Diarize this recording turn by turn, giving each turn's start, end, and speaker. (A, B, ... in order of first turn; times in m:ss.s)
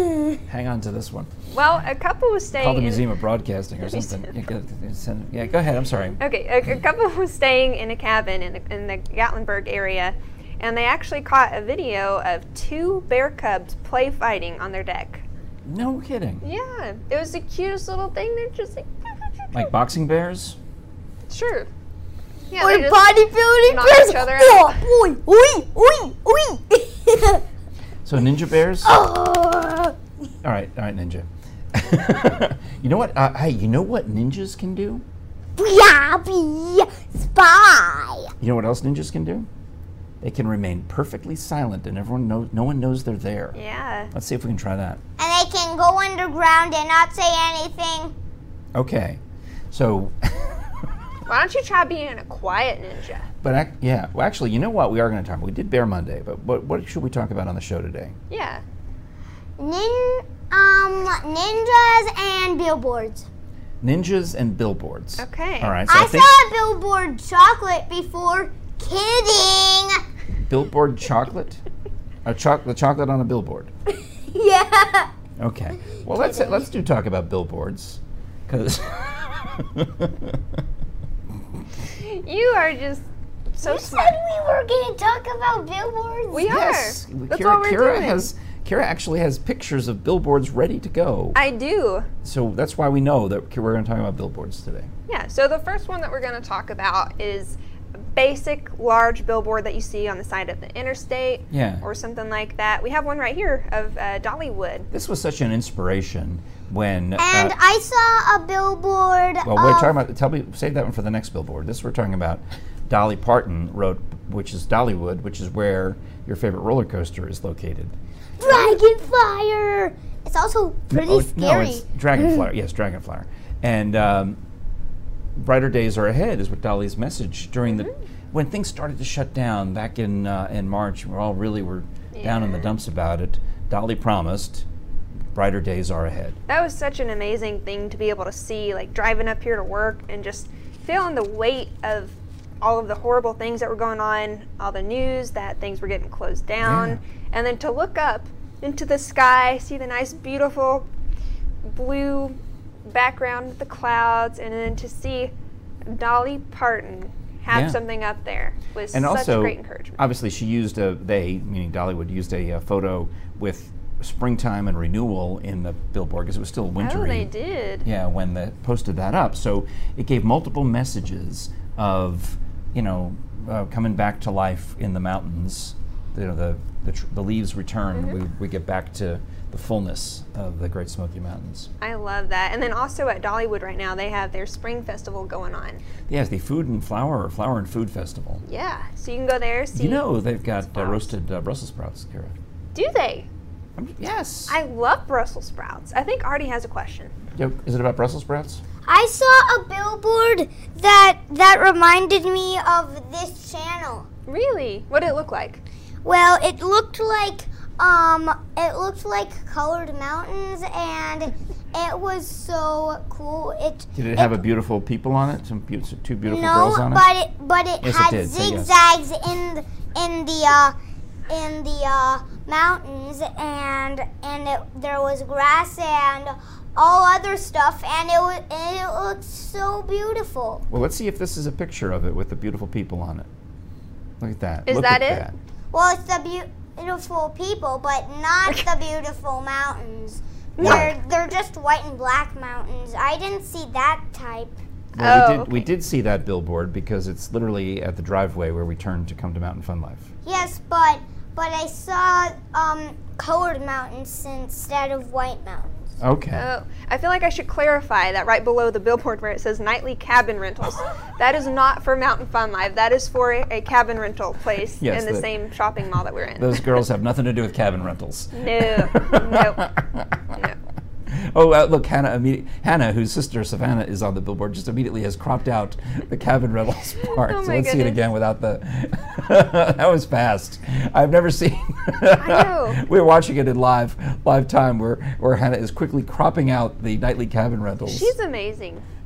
0:00.4-0:01.3 A
0:01.5-0:03.0 B
0:02.5-0:06.2 A
0:03.9-0:04.2 B
0:06.2-0:15.2 B
0:15.6-0:16.4 A
0:16.4-0:18.9 B
0:19.5-0:20.6 A
0:21.3-0:21.7 B
0:22.5-0:23.1 B
0:22.6-0:27.4 C
0:23.6-0:24.8 B
0:28.0-0:29.0 A
0:28.8-0:30.0 C
0:30.4-0:35.0 A
0:35.6-0:38.3 C
0:38.4-0:39.5 A
0:40.2-0:43.6 A
0:43.5-0:44.1 B
0:44.1-0:45.0 A
0:45.2-0:48.1 C
0:48.8-0:50.9 A
0:51.3-0:53.3 B
0:53.4-0:58.2 A
0:58.3-0:58.6 B
0:59.6-1:03.3 C
1:03.8-1:06.3 A
1:05.2-1:05.8 B
1:05.9-1:10.0 C
1:10.4-1:11.6 A
1:12.2-1:13.7 A
1:14.3-1:15.1 C
1:15.4-1:20.6 A
1:16.2-1:16.6 C
1:22.0-1:24.2 B
1:23.6-1:26.5 C
1:26.3-1:28.3 B
1:26.5-1:31.4 A
1:31.4-1:32.1 B
1:32.2-1:34.9 A
1:35.1-1:37.6 B
1:38.1-1:44.9 B
1:41.5-1:41.8 A
1:44.9-1:47.6 A
1:47.2-1:49.9 C
1:49.4-1:58.0 A
1:58.4-2:02.5 C
2:00.9-2:04.4 A
2:05.4-2:14.6 A
2:12.1-2:12.7 B
2:15.3-2:16.4 A
2:16.5-2:30.9 B
2:26.6-2:27.0 A
2:31.7-2:35.3 B
2:35.9-2:40.0 B
2:37.5-2:37.8 A
2:38.9-2:47.3 A
2:46.8-2:47.9 B
2:47.8-3:01.7 A
2:57.9-2:58.2 B
3:01.8-3:05.8 B
3:06.1-3:08.4 A
3:08.4-3:10.0 B
3:09.7-3:12.4 A
3:10.7-3:11.1 B
3:12.7-3:13.3 B
3:13.8-3:14.6 A
3:14.5-3:17.1 B
3:17.4-3:18.6 A
3:18.9-3:24.1 C
3:24.3-3:25.6 B
3:26.0-3:34.4 C
3:34.0-3:37.1 A
3:36.3-3:40.8 C
3:37.8-3:38.7 A
3:41.3-3:50.7 C
3:50.7-3:53.3 A
3:54.2-3:55.3 A
3:54.7-3:55.3 B
3:55.7-4:04.6 C
4:00.6-4:01.0 B
4:00.6-4:00.9 A
4:05.0-4:05.7 B
4:05.0-4:10.1 A
4:10.2-4:16.0 C
4:16.0-4:16.5 A
4:16.4-4:26.8 B
4:24.8-4:25.3 A
4:26.4-4:30.4 A
4:28.3-4:29.7 B
4:31.1-4:48.1 A
4:37.1-4:38.0 B
4:42.1-4:42.8 B
4:47.9-4:48.8 B